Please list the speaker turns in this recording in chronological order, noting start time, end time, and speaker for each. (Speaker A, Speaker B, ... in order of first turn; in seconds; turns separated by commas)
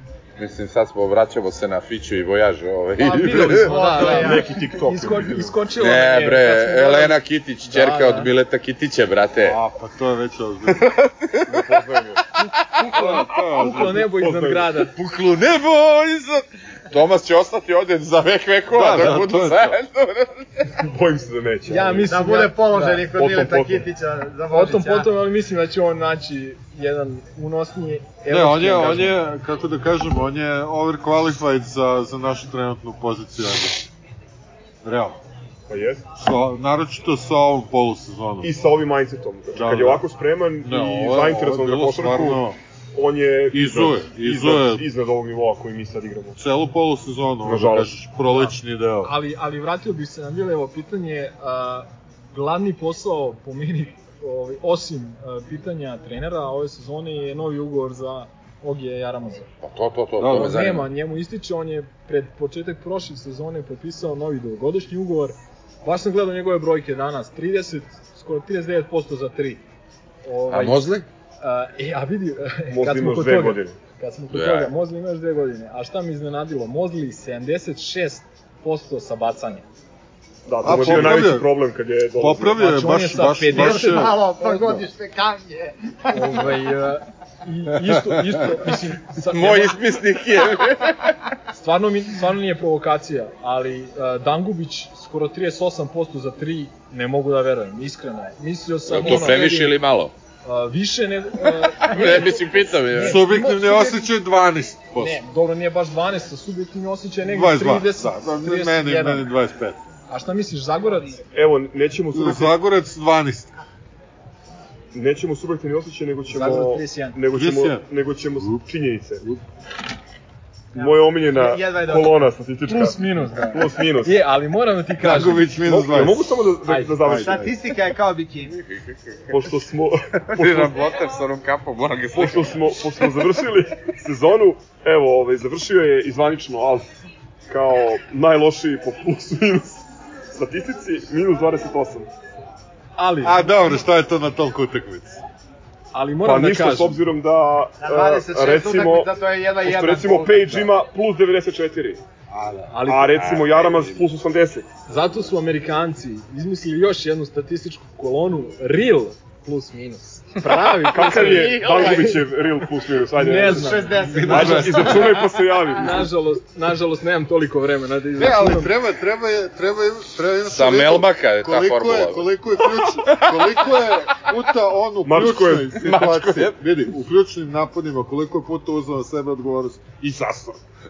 Speaker A: 0.4-3.8, Speaker B: 3.0-8.3, Speaker C: 3.3-4.5, Speaker D: 3.8-5.6, Speaker A: 5.8-9.6, Speaker E: 9.4-10.9, Speaker A: 10.7-11.7, Speaker D: 11.5-14.7, Speaker E: 12.9-14.0, Speaker B: 13.1-14.9, Speaker A: 14.9-20.7, Speaker E: 18.7-19.7, Speaker D: 20.7-22.1, Speaker B: 21.7-23.1, Speaker C: 22.1-25.1, Speaker D: 23.0-23.9, Speaker B: 24.5-29.2, Speaker E: 28.3-33.9, Speaker E: 34.8-35.2, Speaker D: 35.7-36.0, Speaker E: 36.1-38.5, Speaker D: 38.4-46.4, Speaker E: 39.5-40.0, Speaker E: 40.6-42.6, Speaker E: 43.5-44.8, Speaker E: 46.4-49.1, Speaker D: 47.4-47.9, Speaker B: 48.3-59.5, Speaker A: 59.6-60.9, Speaker E: 60.2-60.5, Speaker B: 60.3-69.6, Speaker B: 70.2-70.9, Speaker A: 70.5-71.0, Speaker B: 71.4-79.6, Speaker D: 72.7-73.8, Speaker A: 74.3-74.7, Speaker D: 80.5-82.6, Speaker E: 80.6-81.5, Speaker E: 82.2-84.2, Speaker B: 82.6-84.8, Speaker C: 83.5-86.6, Speaker B: 86.1-89.8, Speaker A: 89.3-91.2, Speaker B: 91.5-99.8, Speaker A: 98.9-100.1, Speaker B: 100.4-104.1, Speaker A: 101.4-103.2, Speaker E: 103.0-105.2, Speaker B: 105.0-109.3, Speaker E: 107.2-109.8, Speaker B: 110.1-111.2, Speaker D: 111.3-112.5, Speaker E: 112.1-113.5, Speaker D: 114.9-119.2, Speaker B: 116.3-117.2, Speaker E: 117.3-117.9, Speaker E: 118.4-118.6, Speaker D: 120.7-124.2, Speaker C: 120.7-122.2, Speaker B: 122.7-125.5, Speaker E: 125.0-126.2, Speaker D: 125.6-127.4, Speaker B: 126.7-127.0, Speaker E: 127.0-127.6, Speaker C: 127.1-128.6, Speaker A: 128.6-129.3, Speaker D: 129.3-130.7, Speaker A: 130.2-133.3, Speaker D: 132.1-136.9, Speaker D: 137.5-142.1, Speaker B: 142.9-143.6, Speaker E: 143.2-145.2, Speaker B: 145.9-147.0, Speaker D: 146.2-152.0, Speaker C: 147.8-150.6, Speaker E: 152.3-152.7, Speaker B: 152.7-153.3, Speaker D: 152.8-154.7, Speaker B: 154.9-162.3, Speaker A: 160.4-162.2, Speaker D: 160.8-166.1, Speaker B: 163.1-164.8, Speaker C: 163.4-165.2, Speaker E: 164.1-165.0, Speaker B: 165.7-168.7, Speaker E: 168.2-180.6, Speaker A: 170.5-174.3, Speaker D: 175.0-175.8, Speaker A: 175.8-176.6